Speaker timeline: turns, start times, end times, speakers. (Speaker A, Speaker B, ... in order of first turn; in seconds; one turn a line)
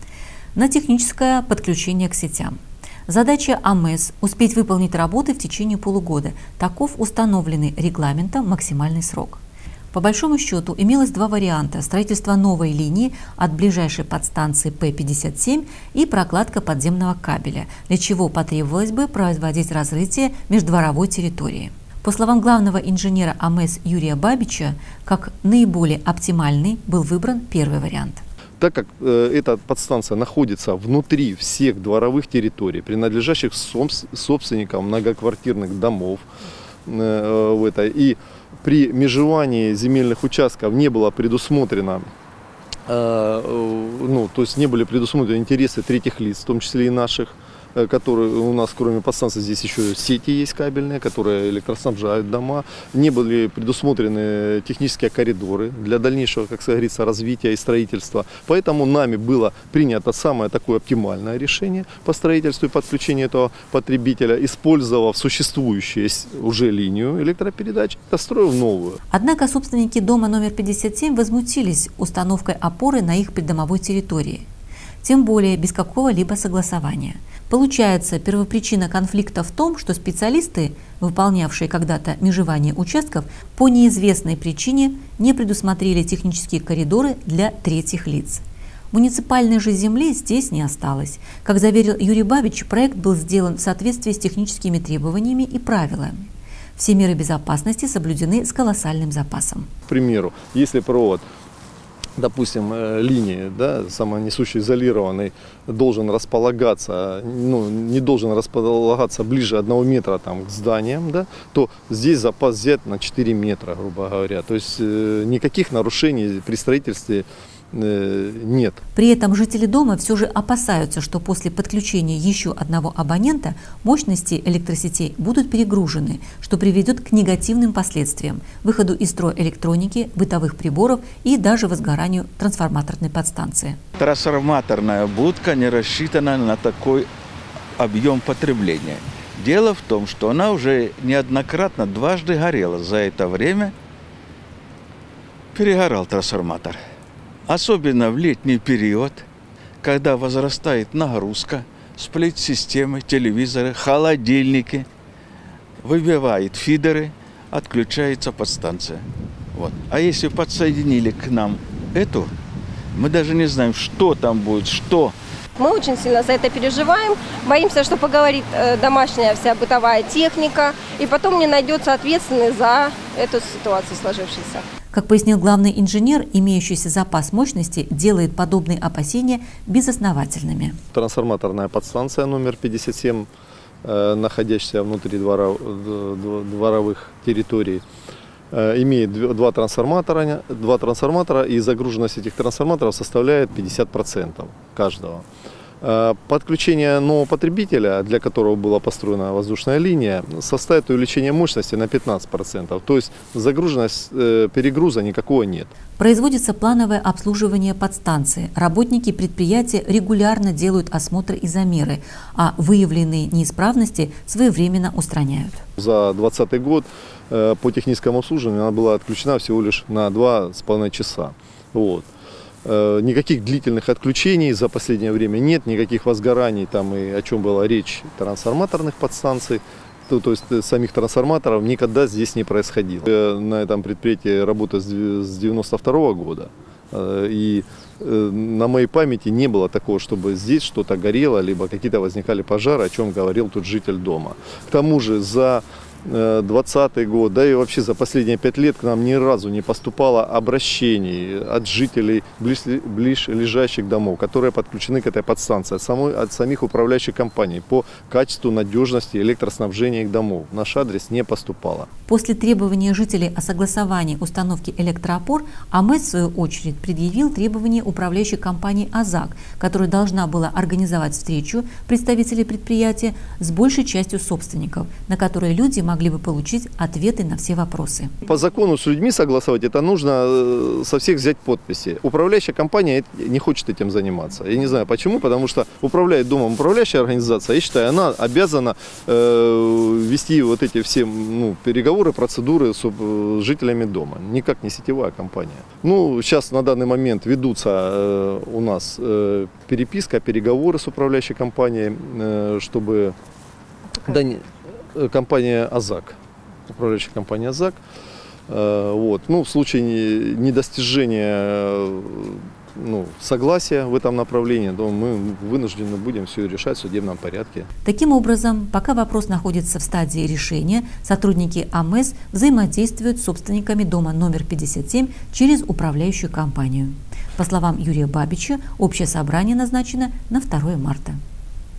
Speaker A: 0.6-9.4
Speaker A: 9.9-28.2
Speaker B: 28.6-36.2
Speaker B: 36.9-42.1
Speaker B: 42.9-69.0
Speaker A: 69.1-74.5
Speaker A: 75.0-99.7
Speaker B: 99.9-101.2
Speaker B: 102.2-118.8
Speaker A: 119.0-133.8
Speaker C: 134.0-137.1
Speaker C: 137.8-143.7
Speaker C: 145.5-146.8
Speaker C: 147.5-149.3
Speaker C: 149.8-154.9
Speaker C: 155.8-162.3
Speaker C: 162.9-165.2
Speaker D: 165.6-174.7
Speaker A: 174.9-180.8
Speaker B: 180.9-183.3
Speaker B: 183.8-187.8
Speaker B: 188.5-195.2
Speaker B: 195.8-205.7
Speaker A: 206.0-215.6
Speaker B: 215.8-222.1
Speaker B: 222.7-261.9
Speaker A: 262.1-278.1
Speaker B: 278.2-303.1
Speaker B: 303.9-306.2
Speaker B: 306.7-307.8
Speaker B: 308.5-317.7
Speaker A: 317.8-331.2